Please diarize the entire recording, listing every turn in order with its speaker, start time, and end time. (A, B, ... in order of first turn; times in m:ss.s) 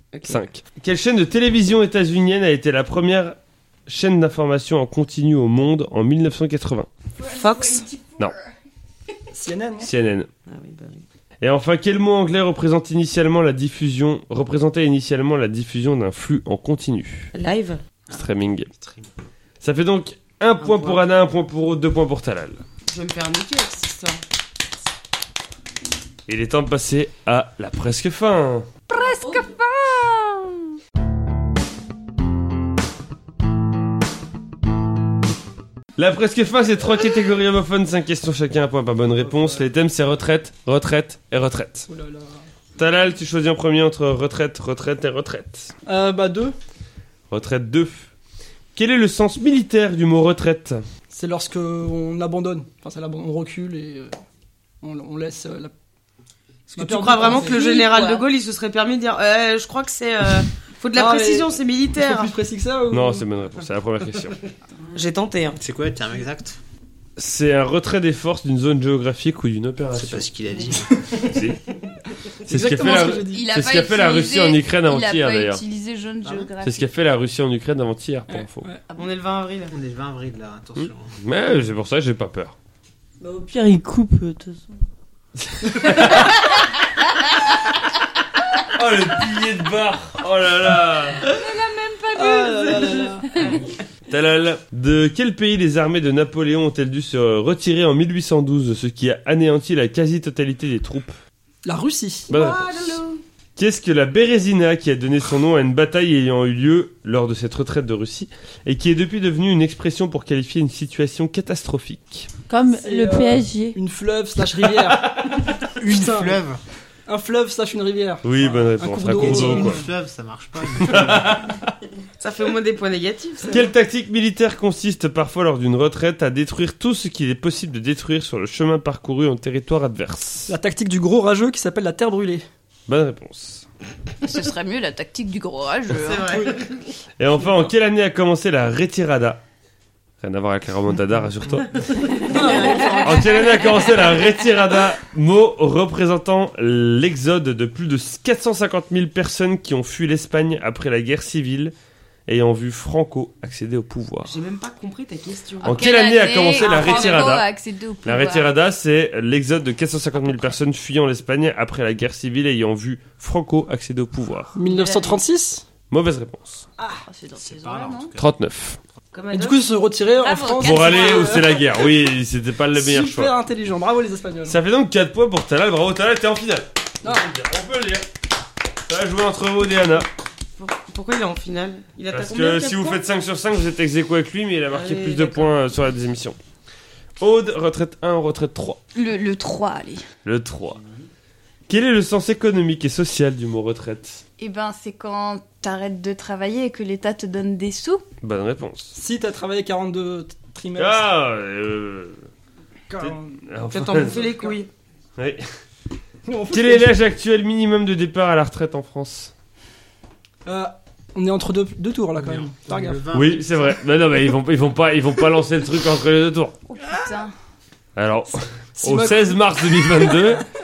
0:00.1-0:00.4 A
0:00.2-0:06.9 B
0:07.2-0:08.3 C
0:07.2-0:07.9 A
0:09.3-0:09.9 D
0:09.8-0:10.3 B
0:10.5-0:11.0 A
0:11.4-0:17.3 B
0:17.3-0:17.8 A
0:18.1-0:18.7 B
0:18.7-0:19.1 E
0:19.6-0:22.6 B
0:20.6-0:21.0 A
0:22.9-0:24.2 A
0:26.3-0:28.7 B
0:28.9-0:30.6 C
0:36.0-0:41.9 B
0:39.2-0:39.6 D
0:41.9-0:42.4 D
0:42.8-0:45.7 B
0:45.9-0:46.6 D
0:47.3-0:48.1 B
0:48.8-0:50.8 B
0:51.1-0:54.2 D
0:54.8-0:55.7 D
0:56.7-0:57.8 D
0:56.8-1:02.3 A
0:57.5-0:58.2 C
1:00.9-1:03.3 D
1:02.9-1:04.4 B
1:04.9-1:05.6 A
1:05.6-1:06.6 E
1:07.2-1:10.3 B
1:09.9-1:11.2 E
1:11.2-1:11.6 B
1:12.4-1:13.5 D
1:12.4-1:15.6 B
1:13.0-1:16.9 C
1:16.2-1:16.5 E
1:16.6-1:18.7 B
1:19.0-1:19.8 A
1:19.7-1:21.1 E
1:20.8-1:22.6 B
1:23.2-1:24.8 F
1:25.4-1:26.4 B
1:28.7-1:31.4 B
1:31.4-1:33.5 C
1:32.1-1:33.4 D
1:34.1-1:41.2 B
1:41.6-1:42.3 D
1:42.3-1:43.0 B
1:42.3-1:43.2 A
1:43.6-1:52.3 B
1:52.5-1:53.8 F
1:52.7-1:56.4 D
1:54.9-1:55.4 B
1:55.8-1:56.6 E
1:57.1-1:59.9 D
1:58.2-1:59.8 B
1:59.1-2:01.4 E
2:00.8-2:01.7 B
2:02.2-2:03.7 A
2:03.5-2:10.5 B
2:10.5-2:12.5 D
2:12.9-2:13.7 B
2:14.2-2:16.4 C
2:15.9-2:16.7 A
2:17.2-2:19.4 B
2:20.2-2:22.2 B
2:21.9-2:23.9 A
2:22.3-2:23.0 C
2:23.0-2:31.7 B
2:32.3-2:34.3 B
2:34.2-2:35.8 A
2:35.6-2:38.5 C
2:35.6-2:37.5 B
2:38.0-2:44.5 B
2:44.6-2:45.6 D
2:44.7-2:45.1 C
2:45.9-2:46.7 B
2:46.8-2:47.0 D
2:47.0-2:48.1 C
2:47.4-2:48.3 E
2:48.2-2:48.8 B
2:49.1-2:49.6 A
2:49.3-2:51.6 D
2:50.2-2:51.6 C
2:50.6-2:53.3 B
2:52.7-2:54.6 D
2:54.5-2:58.1 B
2:57.0-2:57.3 D
2:58.9-3:00.1 B
3:00.6-3:03.0 A
3:02.1-3:06.4 B
3:04.7-3:05.6 A
3:07.2-3:08.8 B
3:09.0-3:10.0 C
3:10.2-3:10.8 B
3:11.7-3:14.2 B
3:14.4-3:18.0 C
3:18.2-3:19.0 B
3:19.0-3:21.0 D
3:20.8-3:22.3 B
3:22.9-3:24.6 D
3:23.0-3:24.2 B
3:23.7-3:24.7 A
3:25.2-3:25.4 B
3:26.3-3:26.9 D
3:26.5-3:29.3 B
3:30.4-3:33.1 D
3:32.2-3:33.7 E
3:33.1-3:36.6 B
3:36.7-3:37.3 C
3:38.0-3:40.5 B
3:38.8-3:40.3 D